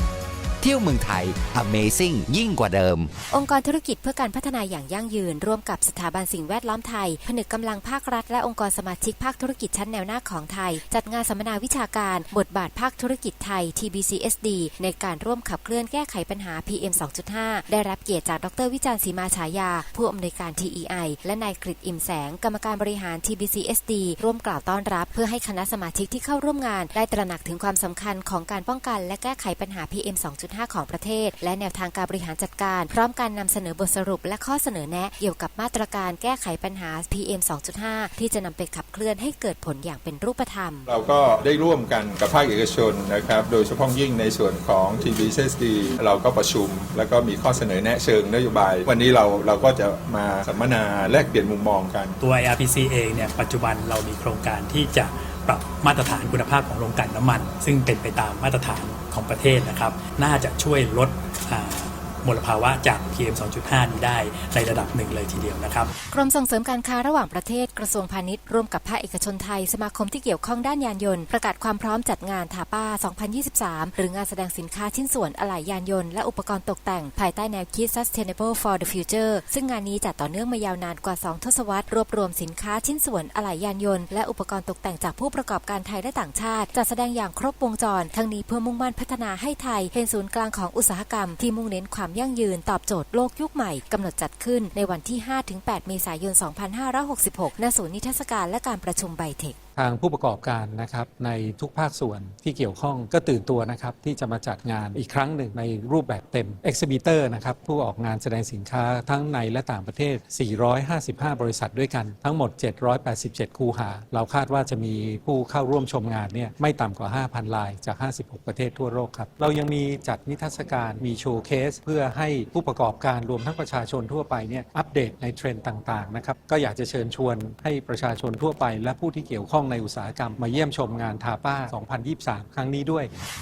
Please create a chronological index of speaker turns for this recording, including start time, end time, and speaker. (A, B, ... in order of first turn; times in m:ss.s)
0:00.6-0:03.0 A
0:03.3-0:40.9 B
0:40.9-0:52.2 C
0:52.2-1:05.9 D
1:06.1-1:39.6 B
1:39.8-2:13.1 E